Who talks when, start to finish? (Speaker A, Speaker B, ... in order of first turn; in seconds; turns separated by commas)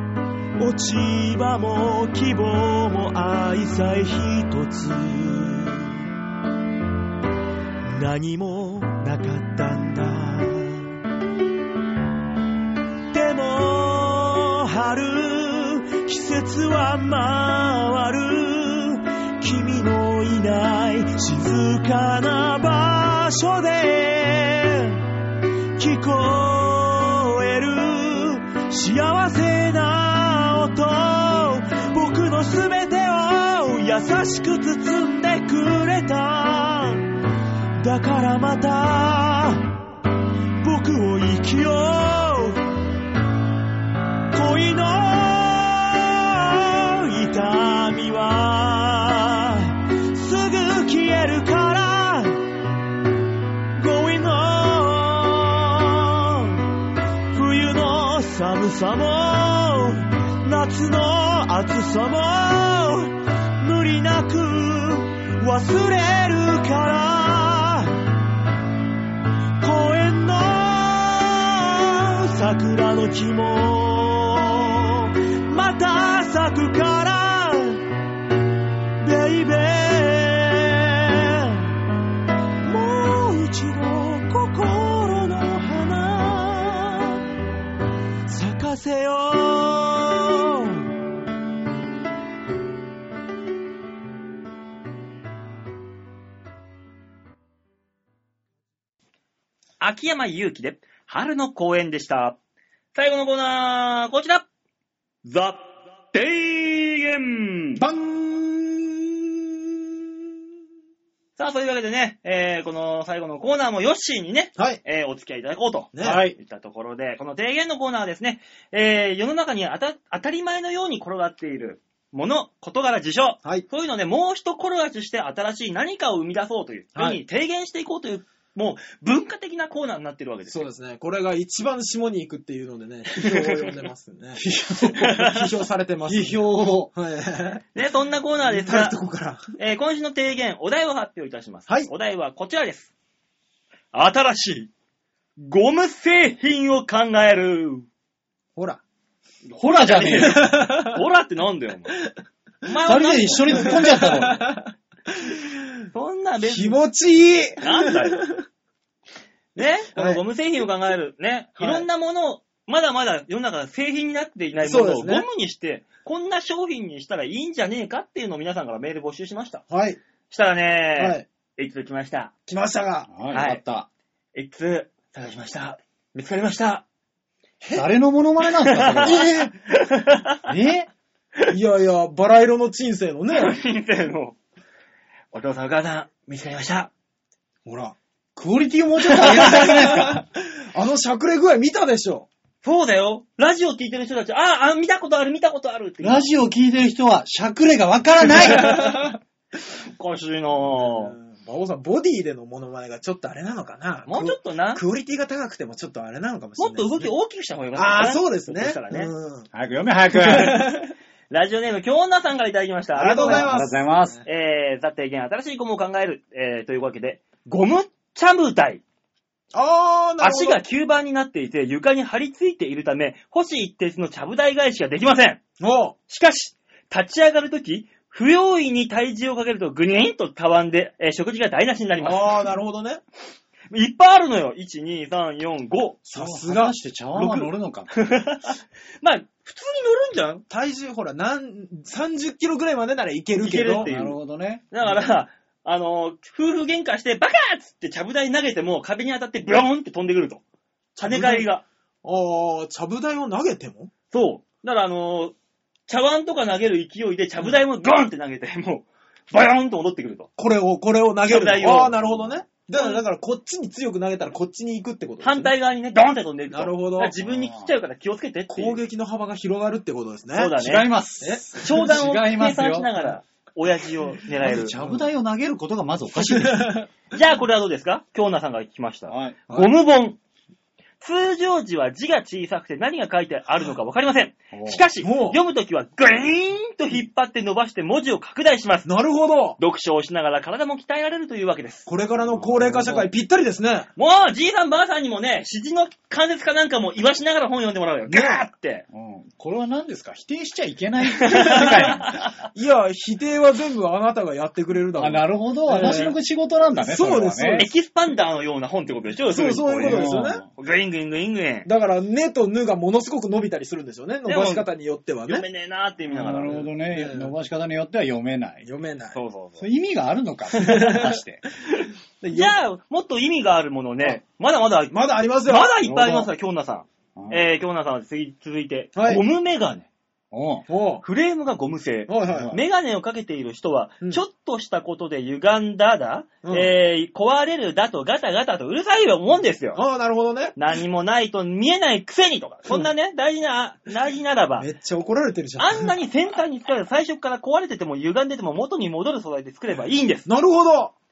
Speaker A: 0.6-6.0, Speaker A: 7.8-10.9, Speaker A: 13.1-25.0, Speaker A: 25.8-37.1, Speaker A: 37.8-39.8, Speaker A: 40.6-42.6, Speaker A: 44.3-52.5, Speaker A: 53.8-56.7, Speaker A: 57.3-68.0, Speaker A: 69.6-77.8, Speaker A: 79.0-81.7, Speaker A: 82.7-87.2, Speaker A: 88.3-90.8, Speaker B: 99.8-102.4, Speaker B: 102.9-104.4, Speaker B: 105.2-107.8, Speaker C: 107.8-108.9, Speaker B: 111.4-130.6, Speaker C: 115.9-116.2, Speaker D: 116.0-116.3, Speaker C: 126.9-127.2, Speaker C: 130.5-137.6, Speaker B: 133.1-133.7, Speaker D: 134.4-135.1, Speaker B: 134.9-135.4, Speaker D: 136.1-136.9, Speaker B: 137.7-139.0, Speaker C: 138.4-139.4, Speaker B: 139.6-142.9, Speaker B: 143.9-144.7, Speaker B: 145.4-147.8, Speaker C: 148.6-148.8, Speaker D: 149.6-150.6, Speaker B: 149.6-152.0, Speaker C: 150.3-151.0, Speaker B: 152.6-153.9, Speaker D: 152.8-154.6, Speaker C: 153.5-155.5, Speaker B: 155.9-156.8, Speaker C: 156.4-158.4, Speaker B: 157.6-158.3, Speaker B: 159.5-169.6, Speaker C: 159.9-160.2, Speaker C: 161.6-161.8, Speaker C: 164.6-165.2, Speaker C: 169.7-170.0, Speaker B: 170.3-172.3, Speaker C: 170.9-171.2, Speaker C: 172.5-173.1, Speaker D: 173.1-173.9, Speaker B: 173.3-173.6, Speaker B: 174.3-176.8, Speaker D: 177.7-179.4, Speaker B: 178.5-180.4, Speaker C: 179.0-179.5, Speaker D: 180.5-180.9, Speaker C: 181.5-183.6, Speaker B: 183.3-184.4, Speaker B: 185.3-186.9, Speaker C: 187.6-187.9, Speaker D: 188.3-190.2, Speaker B: 189.1-190.0, Speaker C: 189.1-192.3, Speaker B: 192.6-196.3, Speaker D: 196.0-199.1, Speaker C: 198.5-199.1, Speaker B: 199.9-201.1, Speaker C: 200.7-207.1, Speaker B: 204.1-204.8, Speaker B: 206.6-209.1, Speaker C: 207.7-209.5, Speaker D: 209.5-210.7, Speaker C: 210.1-210.9, Speaker B: 211.3-213.5, Speaker C: 212.9-214.2, Speaker D: 213.2-214.2, Speaker B: 214.2-218.8, Speaker C: 219.5-220.6, Speaker B: 220.2-225.4, Speaker C: 225.6-225.9, Speaker B: 226.1-232.4, Speaker C: 232.0-233.0, Speaker B: 233.7-236.0, Speaker C: 236.0-236.8, Speaker D: 236.1-237.9, Speaker B: 237.1-240.4, Speaker C: 240.5-243.9, Speaker B: 243.4-244.2, Speaker D: 243.8-244.6, Speaker B: 244.7-250.4, Speaker C: 251.0-251.5, Speaker B: 251.0-251.6, Speaker C: 252.0-253.9, Speaker B: 254.1-255.3, Speaker B: 255.9-260.3, Speaker C: 260.4-265.5, Speaker B: 261.2-262.0, Speaker B: 262.7-263.0, Speaker B: 265.2-268.8, Speaker C: 266.5-267.1, Speaker D: 267.2-267.7, Speaker C: 268.5-270.6, Speaker B: 270.3-270.9, Speaker D: 270.6-272.9, Speaker C: 271.2-271.7, Speaker B: 271.6-274.8, Speaker D: 274.4-276.9, Speaker C: 274.8-275.0, Speaker C: 276.2-276.9, Speaker B: 277.1-280.2, Speaker D: 279.1-279.7, Speaker B: 281.0-288.9, Speaker D: 284.5-284.8, Speaker C: 285.0-285.4, Speaker C: 288.8-289.6, Speaker B: 289.6-291.9, Speaker C: 291.9-293.9, Speaker D: 292.2-293.1, Speaker B: 293.9-298.9, Speaker C: 298.1-298.4, Speaker D: 298.9-302.2, Speaker B: 301.1-302.3, Speaker C: 301.3-301.9, Speaker C: 302.5-306.2, Speaker D: 305.0-307.7, Speaker B: 305.8-306.0, Speaker C: 306.8-307.7, Speaker B: 307.6-311.7, Speaker C: 309.3-310.4, Speaker D: 309.8-310.4, Speaker C: 311.6-315.4, Speaker B: 314.2-314.7, Speaker B: 315.3-316.7, Speaker D: 316.1-318.6, Speaker C: 316.8-317.3, Speaker C: 318.6-319.2, Speaker B: 319.1-319.6, Speaker D: 319.6-321.4, Speaker C: 320.6-321.2, Speaker C: 322.2-322.5, Speaker B: 322.3-329.9, Speaker C: 324.9-326.3, Speaker D: 325.9-326.1, Speaker D: 327.2-327.4, Speaker C: 328.9-329.2, Speaker D: 330.3-330.6, Speaker C: 330.7-331.0, Speaker B: 331.0-339.8, Speaker C: 332.1-332.5, Speaker D: 332.3-332.6, Speaker C: 336.4-336.7, Speaker C: 339.7-340.6, Speaker B: 340.5-344.7, Speaker C: 344.6-345.9, Speaker B: 345.6-350.3, Speaker C: 350.2-350.9